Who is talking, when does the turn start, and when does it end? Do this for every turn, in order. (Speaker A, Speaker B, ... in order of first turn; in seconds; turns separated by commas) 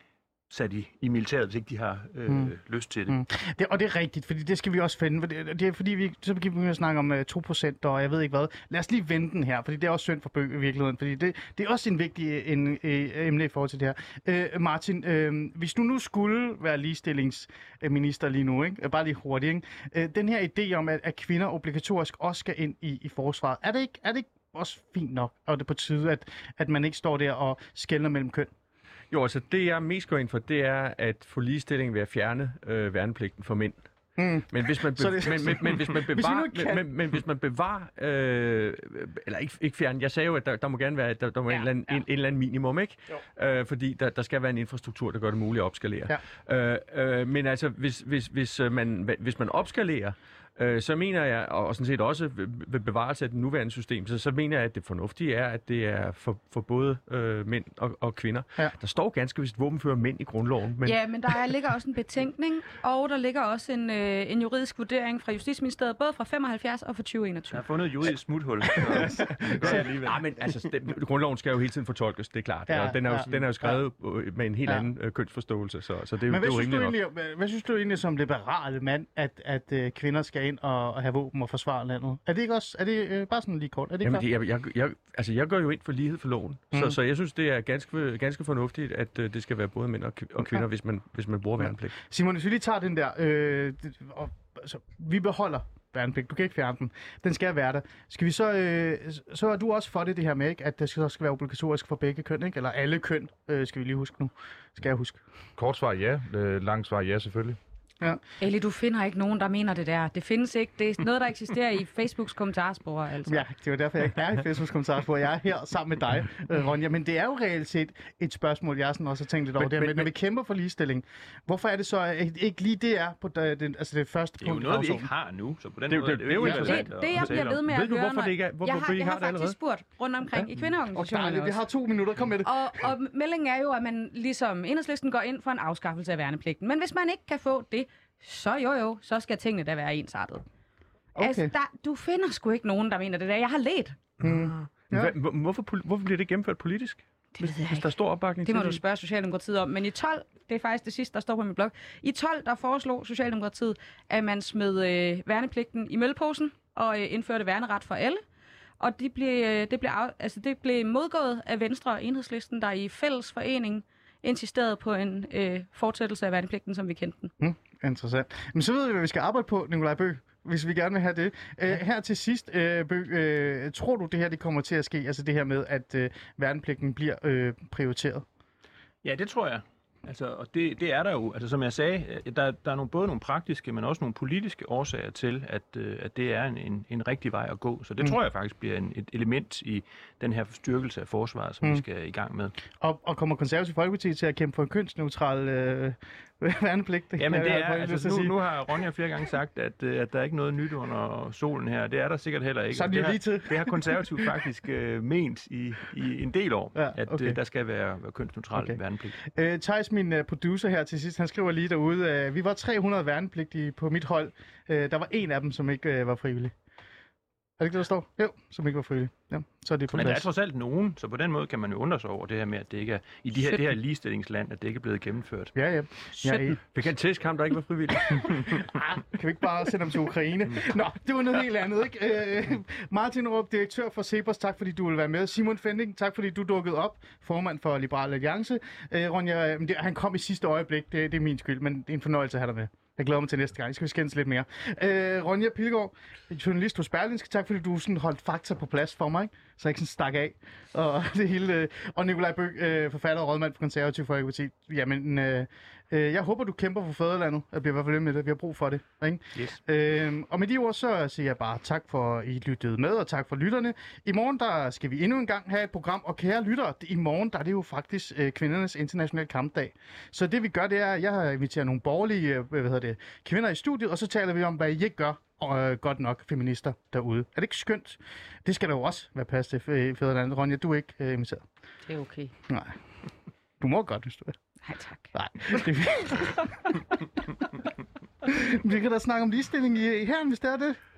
Speaker A: 0.5-3.2, Speaker B: 3.1-28.5, Speaker C: 29.1-33.9, Speaker B: 34.2-36.9, Speaker C: 34.5-61.3, Speaker B: 41.5-41.9, Speaker D: 60.8-67.6, Speaker A: 67.5-70.2, Speaker B: 69.0-69.8, Speaker C: 69.1-77.0, Speaker B: 72.7-73.8, Speaker B: 76.3-84.2, Speaker C: 84.0-92.0, Speaker B: 86.7-87.0, Speaker B: 91.6-105.2, Speaker E: 105.6-107.6, Speaker D: 108.4-113.4, Speaker B: 113.2-125.1, Speaker C: 119.6-120.1, Speaker A: 124.4-127.5, Speaker C: 125.9-129.6, Speaker D: 126.4-131.6, Speaker C: 130.3-130.7, Speaker B: 130.9-132.5, Speaker D: 132.4-140.4, Speaker B: 141.2-141.5, Speaker D: 141.2-144.0, Speaker B: 144.2-145.1, Speaker C: 144.3-148.8, Speaker D: 147.4-147.9, Speaker D: 148.4-158.2, Speaker D: 158.8-167.3, Speaker B: 167.4-178.2, Speaker A: 179.0-192.6, Speaker B: 192.8-198.3, Speaker A: 197.2-209.2, Speaker B: 202.7-204.4, Speaker B: 206.8-207.4, Speaker B: 209.2-216.6, Speaker B: 217.6-220.2, Speaker A: 219.9-226.2, Speaker B: 225.5-226.6, Speaker C: 226.5-228.6, Speaker B: 228.1-281.4, Speaker D: 281.9-282.3, Speaker B: 282.5-282.8, Speaker B: 283.6-284.4, Speaker D: 284.6-285.1, Speaker B: 285.1-286.8, Speaker B: 288.2-290.8